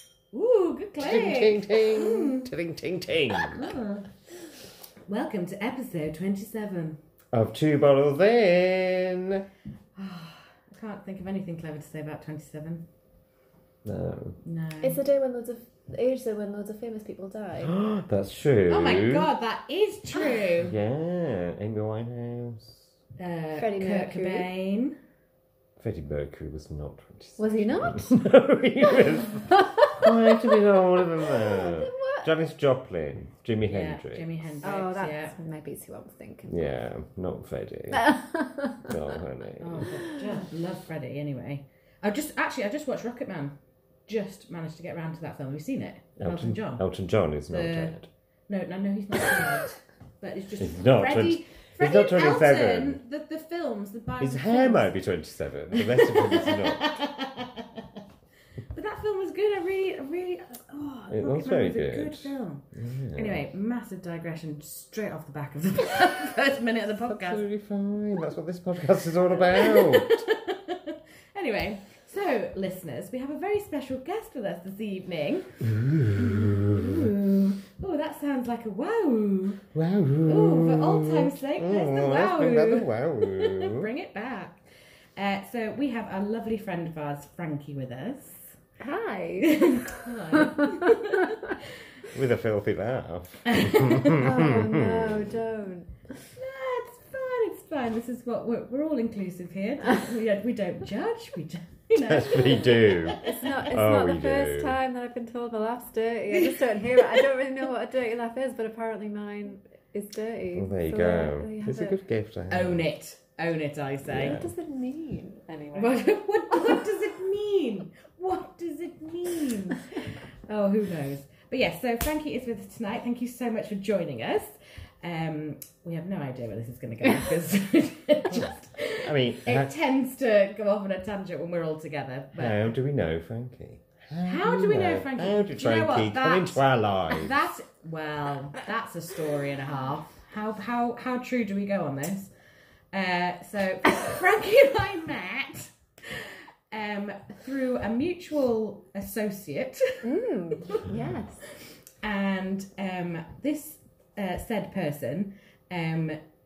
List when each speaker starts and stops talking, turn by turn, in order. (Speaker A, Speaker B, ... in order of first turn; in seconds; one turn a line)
Speaker A: 0.3-2.5
Speaker B: 1.0-3.7
Speaker A: 3.5-4.1
Speaker A: 5.1-7.0
Speaker B: 7.3-9.4
Speaker A: 10.0-12.8
Speaker B: 13.8-14.4
Speaker A: 14.4-15.0
Speaker C: 14.8-17.7
Speaker B: 17.6-19.3
Speaker A: 18.7-20.8
Speaker B: 20.6-22.9
Speaker A: 23.2-25.0
Speaker C: 23.6-24.5
Speaker B: 25.8-34.3
Speaker C: 27.4-28.3
Speaker C: 28.8-32.3
Speaker A: 33.7-35.4
Speaker C: 34.6-36.6
Speaker B: 36.5-38.1
Speaker C: 37.9-39.2
Speaker B: 38.9-39.9
Speaker A: 39.6-43.6
Speaker C: 39.9-40.4
Speaker A: 44.1-46.9
Speaker B: 46.2-48.1
Speaker A: 47.5-48.0
Speaker A: 48.5-54.9
Speaker B: 50.6-53.0
Speaker B: 54.2-57.0
Speaker A: 55.7-57.9
Speaker A: 58.7-67.4
Speaker B: 61.1-63.4
Speaker B: 67.0-70.2
Speaker A: 69.4-79.6
Speaker B: 75.6-77.1
Speaker B: 79.7-83.9
Speaker A: 80.2-84.6
Speaker A: 85.2-88.5
Speaker C: 88.8-91.4
Speaker A: 89.4-91.7
Speaker B: 92.1-95.3
Speaker A: 93.5-94.2
Speaker C: 94.1-96.0
Speaker A: 96.4-103.5
Speaker B: 102.0-104.8
Speaker C: 103.2-112.0
Speaker B: 110.5-112.9
Speaker A: 112.5-114.4
Speaker B: 114.1-114.5
Speaker C: 114.2-116.0
Speaker A: 115.7-132.7
Speaker C: 116.5-116.9
Speaker B: 128.3-129.7
Speaker B: 132.3-137.5
Speaker A: 134.2-142.3
Speaker A: 142.9-150.1
Speaker C: 150.0-151.4
Speaker A: 150.6-150.9
Speaker A: 151.5-156.2